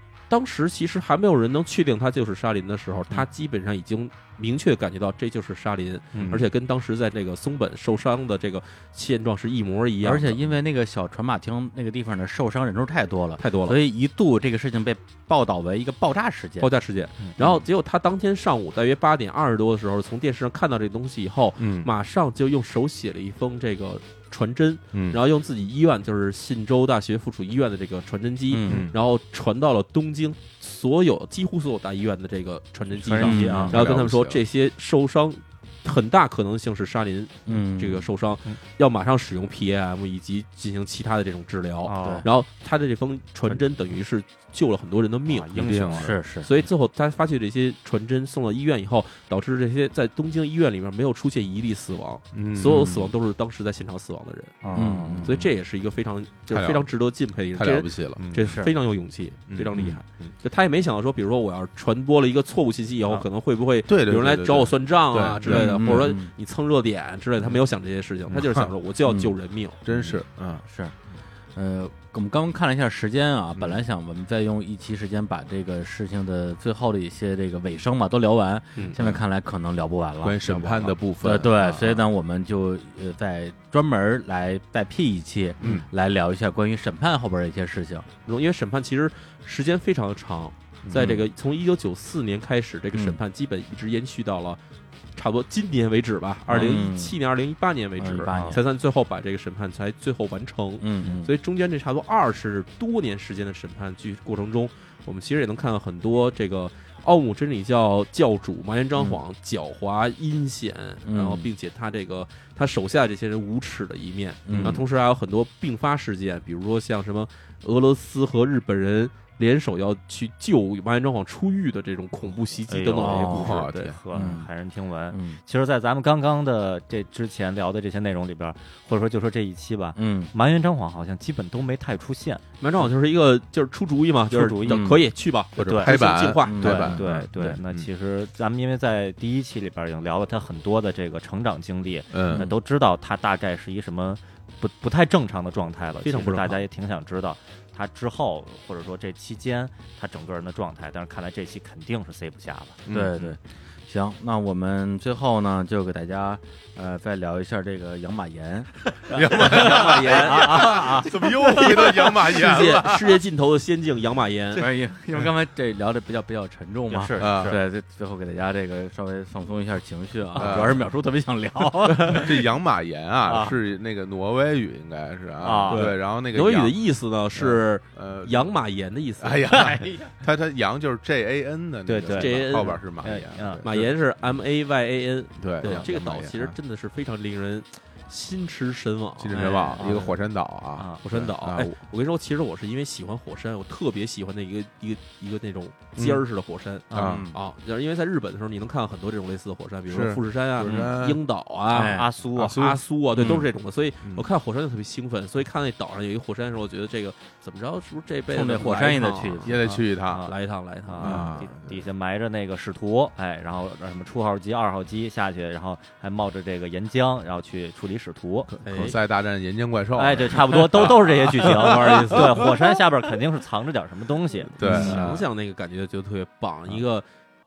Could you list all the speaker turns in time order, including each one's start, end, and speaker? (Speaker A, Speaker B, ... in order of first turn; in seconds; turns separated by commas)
Speaker A: 0.3-10.4, Speaker B: 6.2-6.5, Speaker C: 10.0-16.7, Speaker A: 13.4-13.8, Speaker A: 16.6-69.8, Speaker B: 21.6-21.9, Speaker B: 24.9-25.2, Speaker C: 28.5-28.9, Speaker B: 28.6-28.9, Speaker D: 33.0-33.8, Speaker C: 33.1-33.7, Speaker B: 33.2-34.4, Speaker C: 37.5-38.1, Speaker D: 41.8-42.2, Speaker C: 42.0-42.2, Speaker D: 45.3-46.1, Speaker B: 45.5-46.1, Speaker C: 46.0-46.5, Speaker B: 52.3-53.0, Speaker C: 52.7-53.0, Speaker D: 54.6-55.2, Speaker B: 54.7-55.5, Speaker C: 54.7-55.3, Speaker B: 56.5-56.9, Speaker B: 57.5-58.2, Speaker C: 58.3-58.7, Speaker B: 59.5-60.0, Speaker B: 63.9-66.2, Speaker C: 65.4-66.3, Speaker B: 68.3-69.3, Speaker B: 69.8-70.6, Speaker C: 70.7-70.9, Speaker C: 71.5-88.1, Speaker B: 78.9-79.2, Speaker B: 80.2-82.0, Speaker A: 88.2-94.6, Speaker A: 95.2-123.9, Speaker C: 96.5-97.1, Speaker C: 98.0-98.6, Speaker D: 98.3-98.6, Speaker C: 100.8-101.3, Speaker C: 111.0-111.5, Speaker C: 114.5-114.8, Speaker B: 114.5-114.8, Speaker D: 122.7-132.4, Speaker C: 123.0-123.5, Speaker B: 123.3-124.0, Speaker C: 124.1-124.5, Speaker C: 125.1-125.4, Speaker C: 129.9-130.3, Speaker A: 132.6-136.9, Speaker D: 134.3-135.0, Speaker C: 134.6-135.0, Speaker B: 135.6-137.9, Speaker D: 135.6-152.8, Speaker C: 136.4-137.1, Speaker B: 142.1-142.5, Speaker A: 146.0-146.6, Speaker B: 152.8-153.2, Speaker C: 152.9-158.7, Speaker B: 159.1-163.2, Speaker A: 159.3-160.7, Speaker D: 159.3-161.7, Speaker C: 160.0-161.2, Speaker A: 161.6-164.7, Speaker C: 164.6-172.4, Speaker D: 166.9-167.5, Speaker B: 167.2-167.6, Speaker B: 170.3-170.8, Speaker D: 171.8-172.3, Speaker B: 172.1-176.8, Speaker D: 173.2-173.6, Speaker D: 175.4-175.9, Speaker A: 175.7-179.8, Speaker B: 177.3-178.5, Speaker B: 179.2-183.9, Speaker D: 181.8-183.6, Speaker A: 182.1-182.8, Speaker A: 183.6-189.8, Speaker B: 185.4-186.6, Speaker B: 189.2-191.7, Speaker D: 189.3-190.2, Speaker C: 189.4-189.8, Speaker A: 191.0-209.6, Speaker B: 196.0-196.2, Speaker D: 196.9-197.2, Speaker B: 196.9-197.3, Speaker C: 197.0-197.3, Speaker B: 199.9-201.2, Speaker C: 201.7-202.1, Speaker D: 201.9-202.7, Speaker B: 202.3-203.4, Speaker C: 208.3-209.5, Speaker B: 209.4-210.3, Speaker D: 209.6-210.3, Speaker A: 210.2-211.4, Speaker D: 210.8-218.6, Speaker B: 211.0-211.8, Speaker B: 218.5-222.5, Speaker A: 218.7-219.0, Speaker D: 219.9-225.0, Speaker A: 220.8-222.5, Speaker B: 224.6-225.3, Speaker A: 224.6-227.0